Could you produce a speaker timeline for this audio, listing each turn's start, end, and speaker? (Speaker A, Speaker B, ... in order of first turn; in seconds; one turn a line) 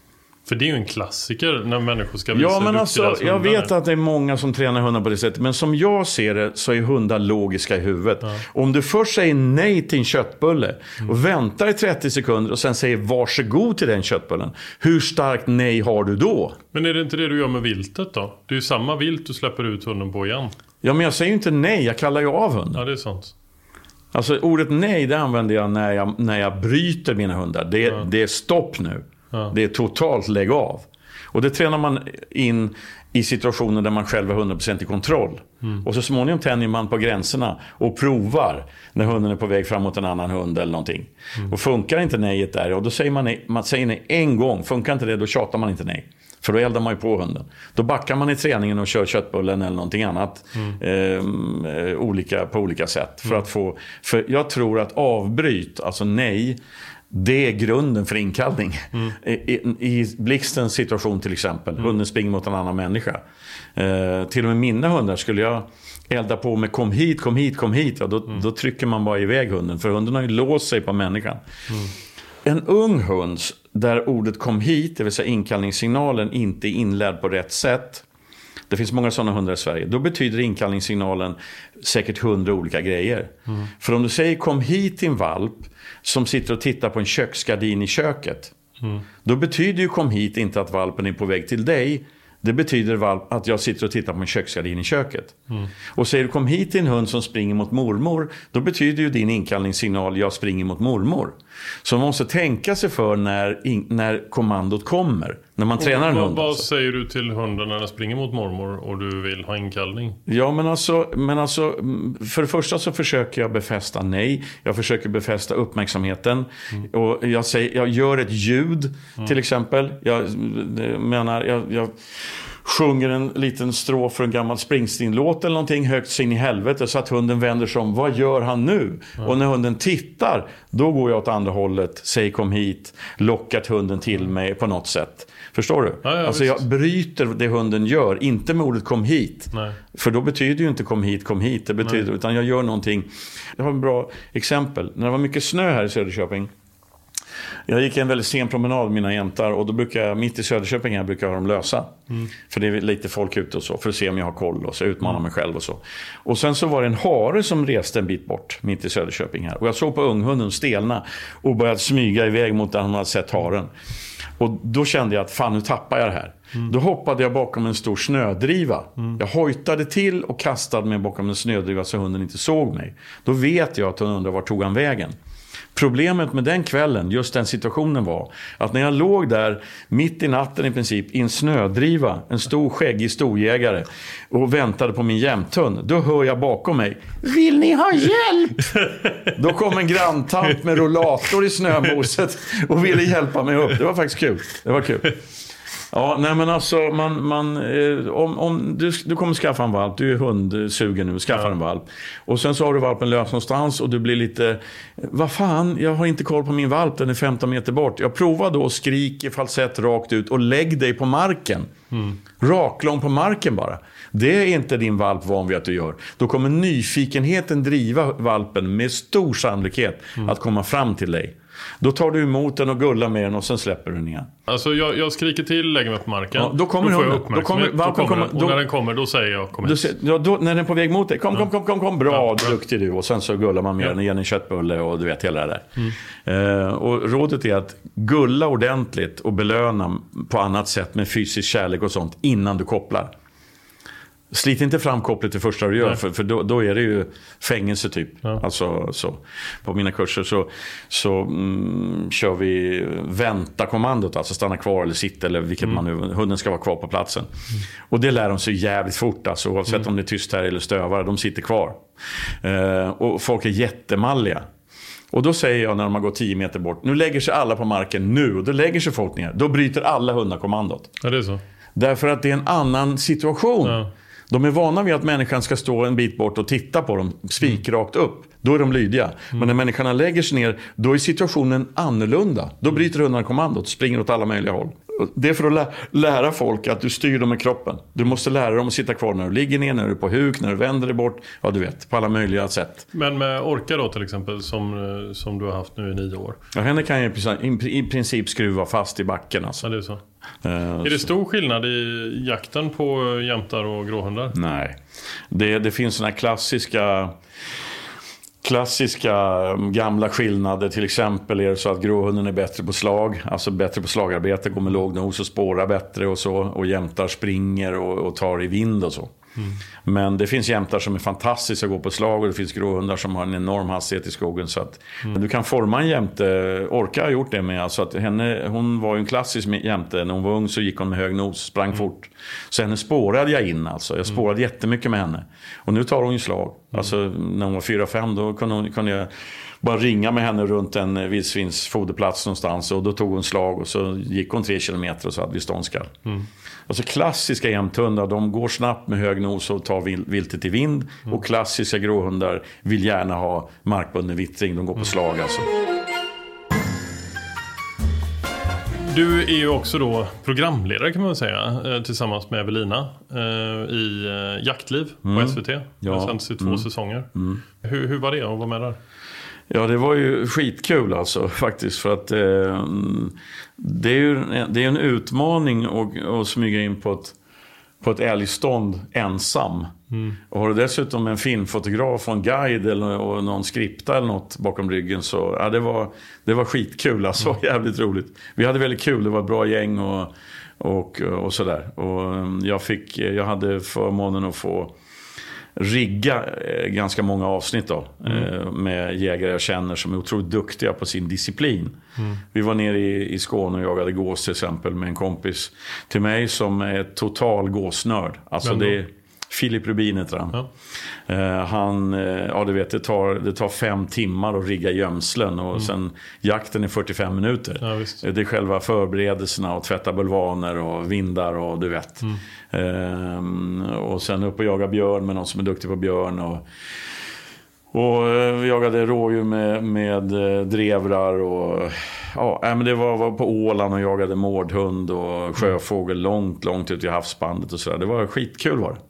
Speaker A: 0.5-3.7
Speaker B: 2.3-16.6
Speaker A: 16.7-20.5
Speaker B: 20.8-22.8
Speaker A: 22.8-23.3
Speaker B: 24.1-56.6
Speaker B: 57.1-63.2
Speaker B: 63.8-71.4
Speaker B: 72.4-78.0
Speaker B: 78.7-88.5
Speaker B: 89.2-95.4
Speaker B: 95.9-106.7
Speaker A: 105.8-110.2
Speaker B: 110.3-146.5
Speaker A: 136.0-136.6
Speaker B: 147.7-163.7
Speaker B: 164.4-175.2
Speaker B: 175.8-195.2
Speaker B: 195.9-211.7
Speaker A: 211.9-212.2
Speaker B: 212.4-224.3
Speaker A: 224.5-229.9
Speaker B: 226.3-228.6
Speaker B: 229.6-243.1
Speaker B: 244.3-257.3
Speaker B: 257.9-261.8
Speaker B: 262.4-264.5
Speaker B: 265.1-270.9
Speaker A: 271.0-271.4
Speaker B: 271.8-292.9
Speaker A: 292.9-296.4
Speaker B: 296.5-299.7
Speaker A: 299.6-300.0
Speaker B: 300.4-301.1
Speaker A: 300.8-304.4
Speaker B: 304.3-304.8
Speaker B: 305.3-307.1
Speaker B: 308.4-319.1
Speaker B: 319.8-339.1
Speaker B: 339.6-345.9
Speaker B: 346.7-355.5
Speaker A: 358.8-368.8
Speaker B: 365.1-367.4
Speaker B: 369.5-377.1
Speaker B: 377.8-379.7
Speaker B: 380.3-394.8
Speaker B: 395.6-401.8
Speaker B: 402.3-410.4
Speaker A: 408.4-408.8
Speaker B: 411.1-426.4
Speaker A: 417.6-418.0
Speaker B: 427.7-438.8